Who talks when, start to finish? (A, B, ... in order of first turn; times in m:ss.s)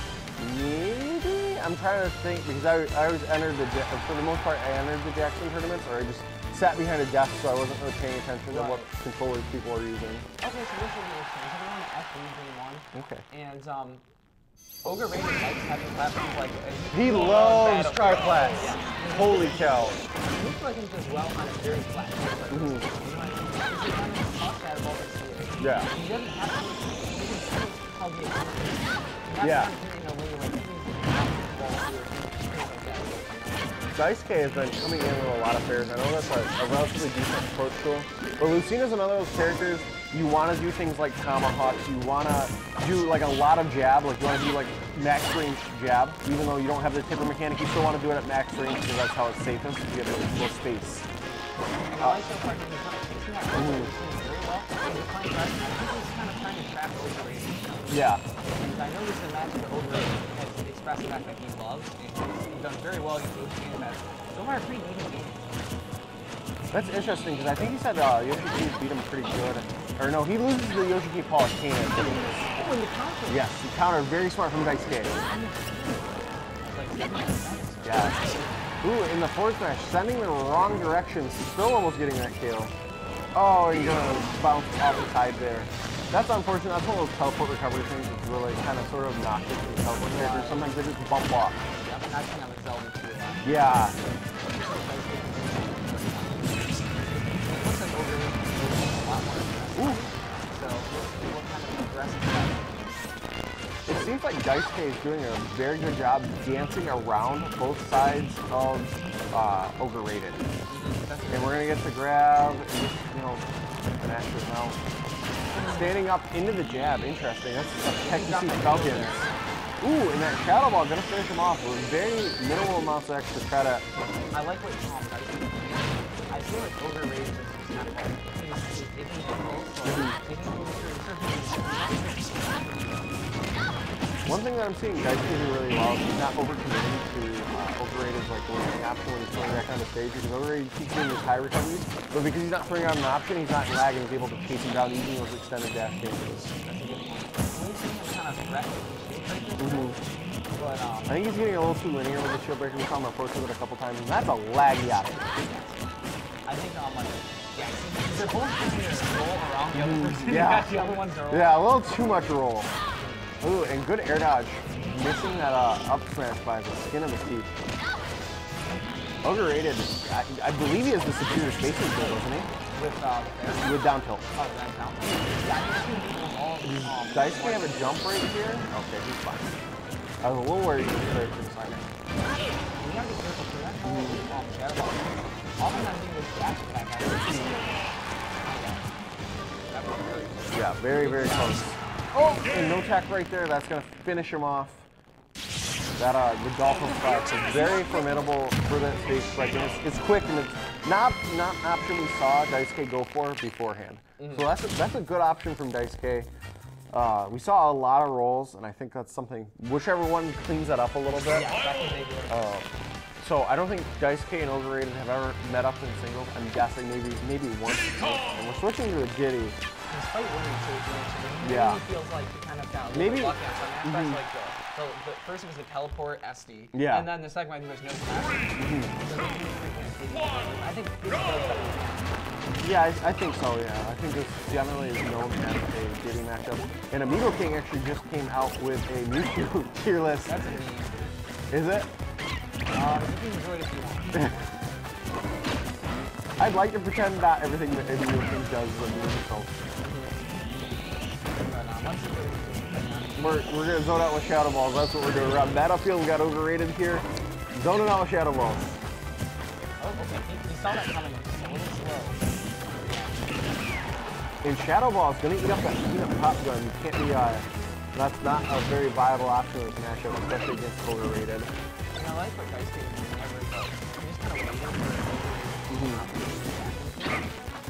0:00.4-0:10.3 A
0:08.5-0:08.9 B
0:10.4-0:14.0 B
0:12.9-0:13.2 A
0:14.8-0:33.9 B
0:16.9-0:20.0 A
0:22.5-0:22.9 A
0:25.6-0:25.9 A
0:29.4-0:29.7 A
0:33.9-0:51.0 A
0:51.9-1:05.6 B
0:53.5-0:53.9 A
0:57.9-0:58.2 A
1:06.7-1:12.5 A
1:12.5-1:13.4 B
1:13.3-1:15.2 A
1:15.2-1:18.6 B
1:17.8-1:18.2 A
1:18.8-1:22.7 A
1:23.3-1:31.6 A
1:30.1-1:30.8 B
1:31.8-1:33.6 B
1:33.4-1:34.0 A
1:34.4-1:43.1 B
1:39.8-1:40.0 A
1:43.9-1:50.5 A
1:50.7-1:51.7 B
1:51.3-1:54.8 A
1:55.5-1:56.0 B
1:55.6-1:59.3 A
1:58.0-1:59.3 B
1:59.8-2:03.8 A
2:04.3-2:13.3 B
2:09.8-2:10.2 A
2:14.2-2:26.5 A
2:19.3-2:19.6 B
2:26.6-2:30.0 B
2:29.6-2:30.0 A
2:30.5-2:31.2 B
2:31.1-2:35.2 A
2:35.1-2:35.8 B
2:36.4-2:41.7 B
2:39.7-2:42.7 A
2:43.0-2:43.4 B
2:43.4-2:47.5 A
2:49.2-2:52.5 A
2:51.9-2:57.9 B
2:53.6-2:54.2 A
2:56.6-2:59.6 A
3:00.2-3:01.9 A
3:02.7-3:08.9 B
3:03.8-3:04.2 A
3:09.7-3:11.8 B
3:10.5-3:14.9 A
3:16.0-3:26.3 A
3:24.2-3:24.5 B
3:26.9-3:31.5 A
3:31.3-3:32.5 B
3:32.3-3:32.7 A
3:33.2-3:39.6 A
3:39.9-3:52.2 B
3:41.4-3:41.8 A
3:42.9-3:44.2 A
3:46.7-3:47.1 A
3:48.6-3:48.9 A
3:52.6-4:00.4 A
4:00.2-4:01.1 B
4:01.5-4:01.9 A
4:02.7-4:04.2 B
4:04.1-4:04.4 A
4:06.4-4:09.5 A
4:09.8-4:10.4 B
4:11.3-4:13.5 B
4:13.2-4:18.7 A
4:19.8-4:24.0 B
4:24.4-4:31.5 A
4:31.9-4:37.3 B
4:35.7-4:36.0 A